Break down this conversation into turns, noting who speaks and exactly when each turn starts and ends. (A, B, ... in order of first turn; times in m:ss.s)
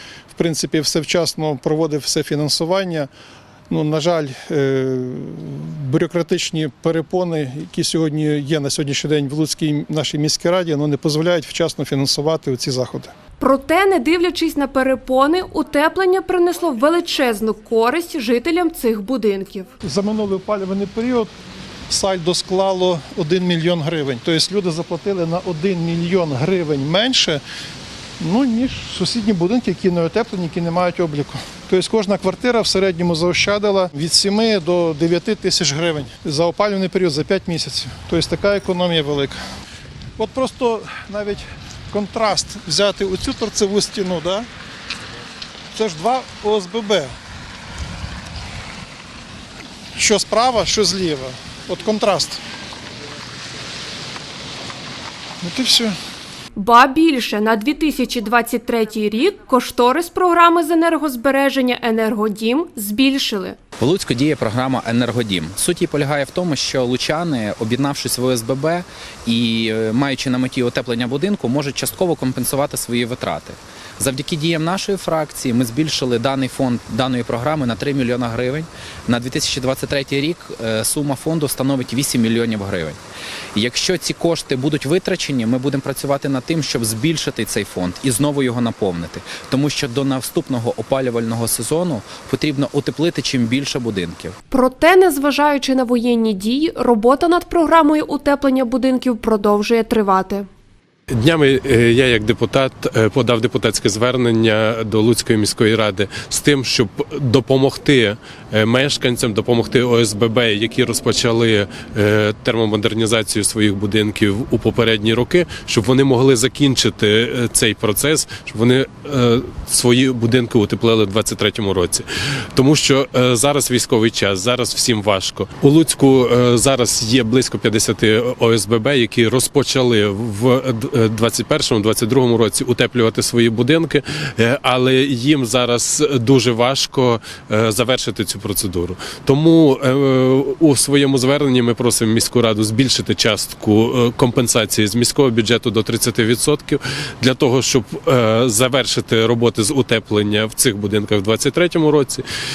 0:00.3-0:03.1 A
0:03.7-0:13.1 A
0:13.4-0:19.7 B
0:19.8-0:21.3 A
0:21.9-0:27.4 A
0:28.2-0:39.4 A
0:40.2-0:44.5 A
0:45.7-0:47.1 A
0:50.0-0:52.4 A
0:55.4-0:56.0 A
0:56.6-1:03.6 B
1:03.8-1:23.0 C
1:23.5-1:34.4 C
1:34.5-1:40.5 B
1:41.1-2:32.2 D